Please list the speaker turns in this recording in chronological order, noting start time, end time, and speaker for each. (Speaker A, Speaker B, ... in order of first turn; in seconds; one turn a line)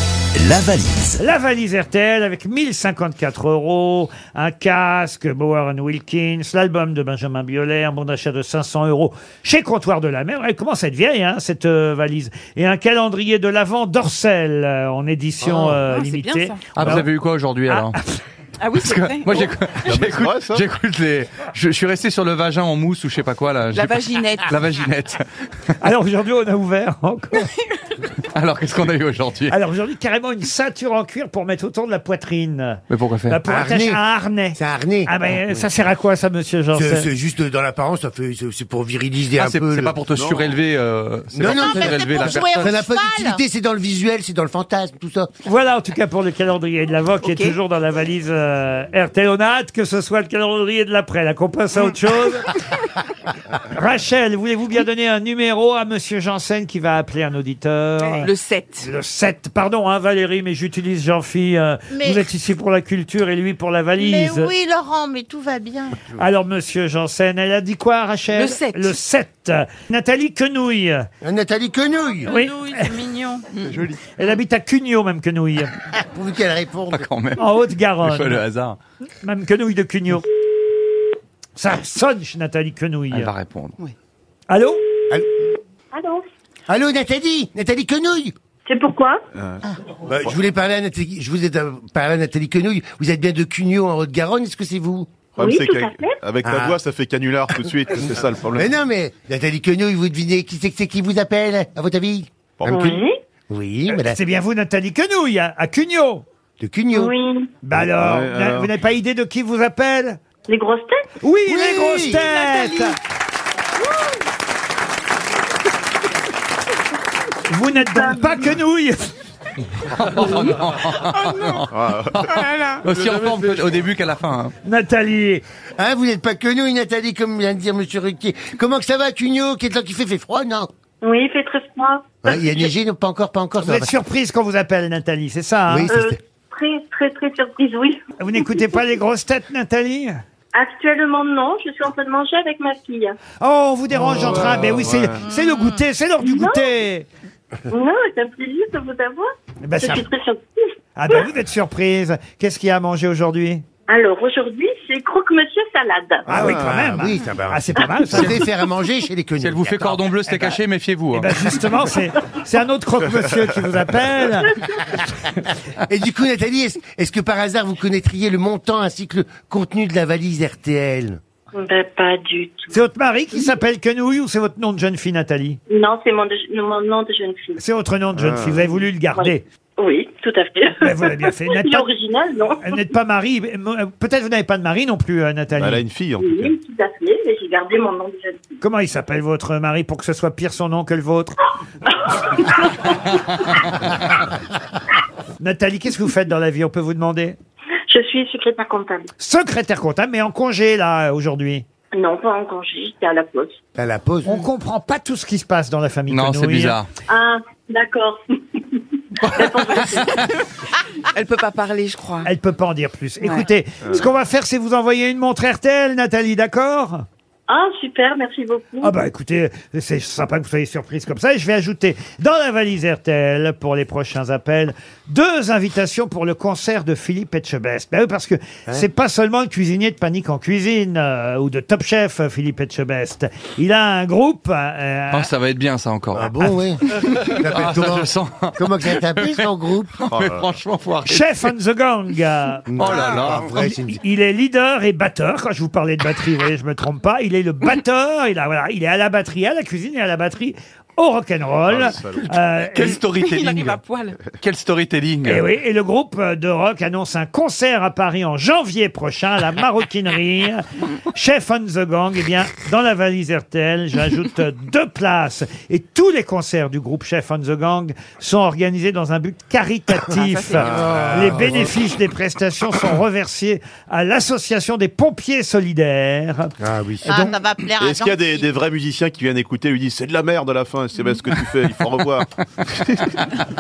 Speaker A: 0.4-1.1
Speaker B: 1.2-17.1
Speaker A: 15.5-15.8
Speaker C: 15.8-16.6
Speaker D: 16.7-18.0
Speaker B: 17.7-18.2
Speaker C: 18.6-19.7
Speaker D: 18.7-25.2
Speaker E: 19.9-20.6
Speaker C: 23.7-24.6
Speaker B: 25.8-27.5
Speaker D: 28.1-29.6
Speaker B: 29.5-37.1
Speaker D: 32.9-33.4
Speaker A: 33.5-34.0
Speaker A: 34.5-35.6
Speaker A: 36.7-40.0
Speaker D: 39.4-42.8
Speaker E: 40.1-40.6
Speaker A: 41.3-45.3
Speaker F: 41.5-43.4
Speaker B: 45.5-52.6
Speaker C: 47.2-47.5
Speaker B: 53.6-64.5
Speaker C: 58.0-58.9
Speaker F: 64.0-65.9
Speaker B: 66.0-71.1
Speaker C: 68.3-69.0
Speaker A: 71.2-72.4
Speaker B: 72.3-73.0
Speaker C: 72.3-73.7
Speaker D: 73.7-74.0
Speaker B: 74.1-75.8
Speaker A: 75.9-77.1
Speaker D: 76.9-77.4
Speaker B: 77.4-78.5
Speaker D: 78.0-78.8
Speaker B: 79.2-80.2
Speaker B: 81.6-83.3
Speaker D: 83.1-83.8
Speaker B: 84.5-84.8
Speaker G: 85.9-86.2
Speaker A: 86.7-88.3
Speaker G: 88.7-89.2
Speaker E: 89.3-89.8
Speaker A: 90.1-95.1
Speaker E: 95.3-98.8
Speaker G: 95.4-96.2
Speaker A: 96.4-96.8
Speaker A: 98.5-103.0
Speaker E: 102.6-103.0
Speaker G: 102.7-103.1
Speaker A: 103.5-104.2
Speaker B: 103.9-106.2
Speaker A: 106.6-107.1
Speaker G: 106.9-107.5
Speaker B: 107.6-110.2
Speaker E: 107.8-108.7
Speaker G: 110.5-111.1
Speaker B: 111.2-113.0
Speaker A: 111.5-112.9
Speaker G: 113.8-114.1
Speaker B: 117.5-119.1
Speaker G: 117.9-118.3
Speaker D: 119.9-124.5
Speaker G: 120.2-120.5
Speaker E: 121.7-122.5
Speaker C: 122.5-122.8
Speaker B: 124.6-125.4
Speaker A: 125.8-130.7
Speaker G: 131.0-132.2
Speaker A: 132.2-133.9
Speaker B: 133.6-135.9
Speaker A: 135.7-136.2
Speaker G: 135.9-138.0
Speaker B: 138.2-140.2
Speaker G: 140.5-143.2
Speaker B: 143.4-147.1
Speaker E: 144.2-145.2
Speaker G: 146.2-146.7
Speaker G: 147.7-150.6
Speaker B: 149.7-150.1
Speaker B: 151.0-153.6
Speaker G: 153.9-156.3
Speaker B: 156.3-158.5
Speaker A: 156.3-160.0
Speaker E: 156.4-156.6
Speaker D: 158.2-158.4
Speaker D: 159.4-161.4
Speaker B: 160.3-160.6
Speaker B: 161.1-164.6
Speaker A: 165.8-171.2
Speaker G: 171.5-172.7
Speaker B: 172.7-175.6
Speaker G: 175.7-177.6
Speaker B: 177.6-179.4
Speaker E: 178.2-178.6
Speaker G: 179.2-182.7
Speaker B: 180.8-181.9
Speaker B: 182.6-185.8
Speaker E: 185.6-186.5
Speaker G: 186.2-188.6
Speaker B: 188.6-191.4
Speaker G: 192.2-193.4
Speaker B: 195.4-197.4
Speaker G: 197.9-199.1
Speaker B: 199.2-201.7
Speaker G: 201.9-203.6
Speaker A: 203.8-204.4
Speaker B: 204.2-206.8
Speaker D: 206.1-206.9
Speaker G: 207.1-210.3
Speaker D: 210.0-210.3
Speaker C: 211.1-212.3
Speaker B: 212.2-217.1
Speaker G: 217.5-218.9
Speaker B: 218.8-235.3
Speaker D: 235.1-241.5
Speaker A: 236.1-239.9
Speaker E: 240.1-240.6
Speaker B: 241.1-253.0
Speaker A: 242.7-244.0
Speaker D: 242.8-243.7
Speaker E: 251.7-252.5
Speaker D: 252.7-255.4
Speaker C: 253.2-254.2
Speaker B: 255.2-276.5
Speaker C: 270.1-271.0
Speaker E: 270.5-271.7
Speaker A: 270.7-271.6
Speaker A: 276.6-277.1
Speaker B: 277.1-277.3
Speaker F: 277.1-278.4
Speaker E: 277.8-283.3